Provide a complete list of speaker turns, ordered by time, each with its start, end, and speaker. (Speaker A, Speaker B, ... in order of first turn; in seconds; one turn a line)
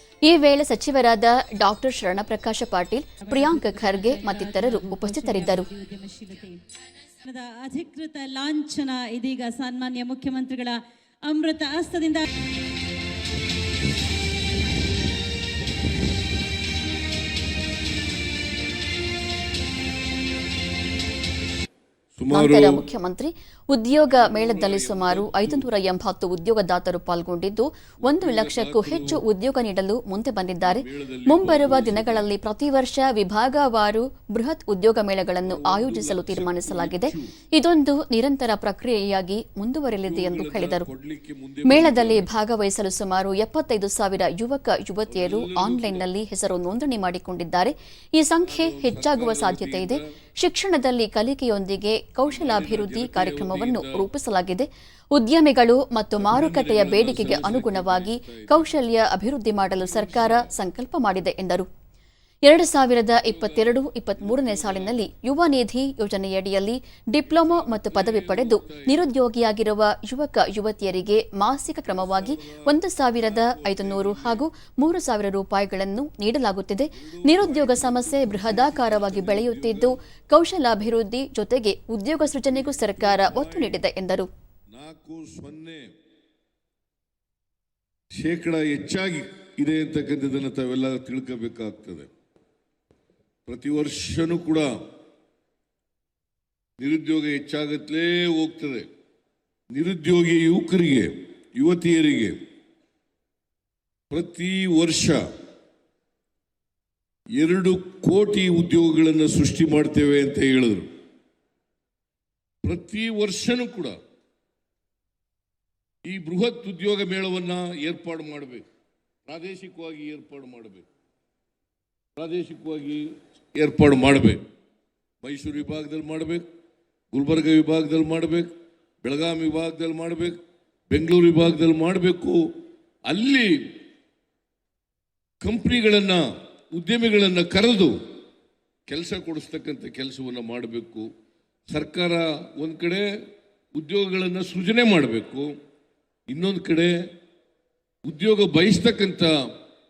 Speaker A: 0.2-5.7
Speaker B: 3.3-6.6
Speaker B: 7.2-12.2
Speaker C: 22.1-22.8
Speaker A: 22.3-40.9
Speaker C: 24.1-25.7
Speaker C: 28.0-29.2
Speaker C: 30.6-32.3
Speaker C: 35.4-37.3
Speaker C: 40.0-42.3
Speaker A: 41.6-61.7
Speaker C: 45.1-46.1
Speaker C: 48.4-50.1
Speaker C: 52.2-54.1
Speaker C: 56.2-58.8
Speaker C: 59.7-60.5
Speaker A: 62.5-84.3
Speaker C: 63.2-65.0
Speaker C: 67.2-69.1
Speaker C: 71.8-74.4
Speaker C: 77.0-80.0
Speaker C: 82.5-83.8
Speaker C: 84.7-85.9
Speaker C: 88.1-92.1
Speaker C: 93.5-94.8
Speaker C: 96.8-98.9
Speaker C: 99.7-102.4
Speaker C: 104.1-105.2
Speaker C: 107.3-110.9
Speaker C: 112.6-114.0
Speaker C: 116.0-118.6
Speaker C: 119.2-120.8
Speaker C: 122.2-124.4
Speaker C: 125.2-126.4
Speaker C: 127.1-128.5
Speaker C: 129.0-130.4
Speaker C: 130.9-132.5
Speaker C: 133.1-133.6
Speaker C: 135.4-138.0
Speaker C: 138.9-141.1
Speaker C: 141.7-143.1
Speaker C: 143.7-145.5
Speaker C: 146.3-146.9
Speaker C: 148.0-149.5